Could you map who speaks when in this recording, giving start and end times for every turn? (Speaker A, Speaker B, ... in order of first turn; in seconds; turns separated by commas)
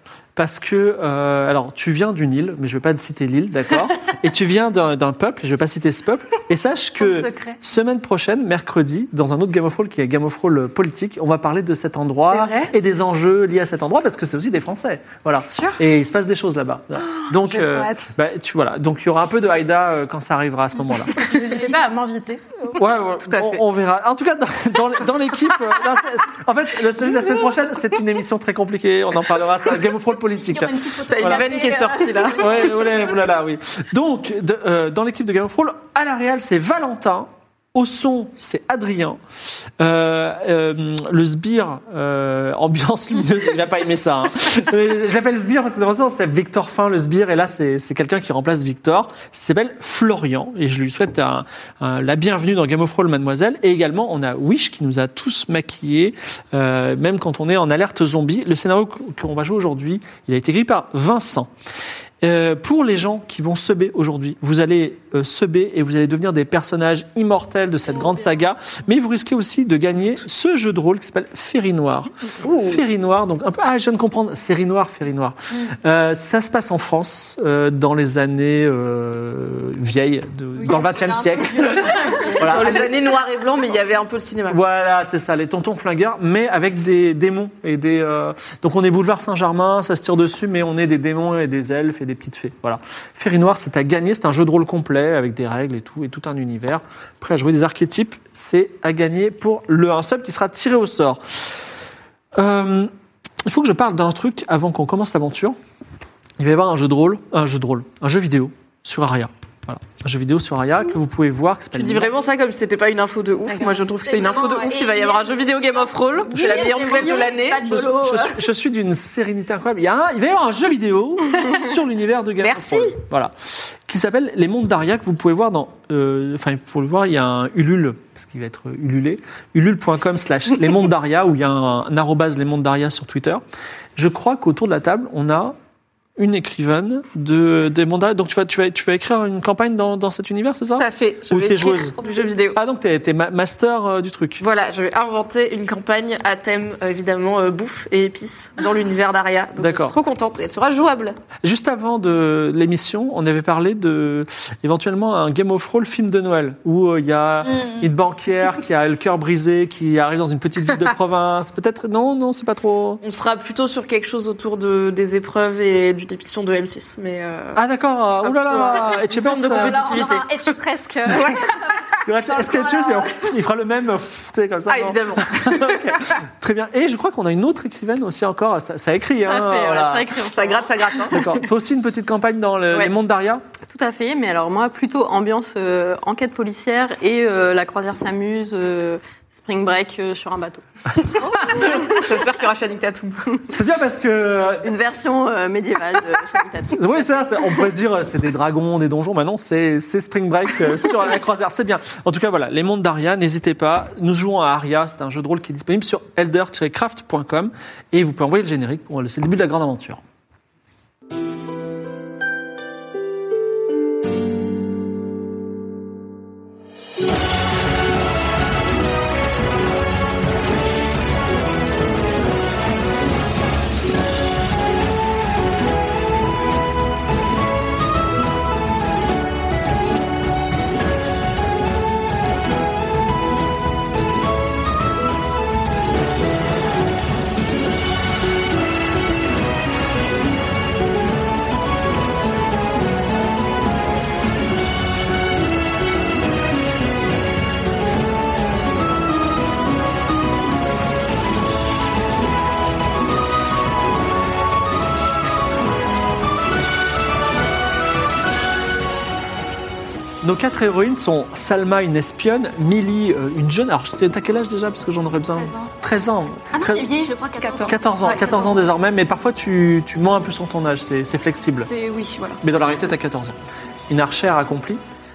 Speaker A: 0.4-21.3, Speaker B: 7.0-7.6, Speaker B: 12.2-12.7, Speaker B: 15.5-15.8, Speaker B: 17.1-18.1, Speaker B: 21.2-22.4, Speaker A: 22.8-31.5, Speaker C: 23.2-23.6, Speaker D: 30.5-32.9, Speaker C: 30.9-32.7, Speaker A: 32.4-39.2, Speaker A: 39.8-61.5, Speaker A: 62.2-82.8, Speaker C: 72.4-72.8, Speaker D: 80.6-82.8, Speaker C: 82.0-84.6, Speaker A: 84.5-101.2, Speaker A: 102.4-102.9, Speaker A: 103.5-105.6, Speaker A: 106.4-112.1, Speaker C: 111.7-117.8, Speaker D: 113.5-118.4, Speaker A: 117.6-123.3, Speaker C: 122.4-123.0, Speaker A: 123.9-133.4, Speaker A: 134.0-135.6, Speaker A: 136.2-141.9, Speaker C: 140.8-142.6, Speaker A: 142.5-144.4, Speaker C: 144.4-151.2, Speaker A: 149.6-150.0, Speaker A: 151.4-163.0, Speaker C: 163.0-167.6, Speaker A: 167.6-169.8, Speaker C: 168.1-170.6, Speaker D: 168.6-171.7, Speaker C: 171.1-171.6, Speaker A: 172.0-180.1, Speaker D: 172.4-173.1, Speaker C: 174.7-175.9, Speaker E: 179.2-180.8, Speaker C: 180.3-181.4, Speaker A: 181.1-183.4, Speaker E: 183.7-191.6, Speaker C: 191.4-193.3, Speaker A: 193.5-194.7, Speaker E: 194.6-197.4, Speaker A: 196.7-210.0, Speaker A: 260.2-266.9, Speaker D: 265.4-265.7, Speaker D: 266.5-268.7, Speaker A: 267.5-271.7, Speaker D: 271.7-272.4, Speaker A: 272.4-273.4, Speaker A: 273.9-274.8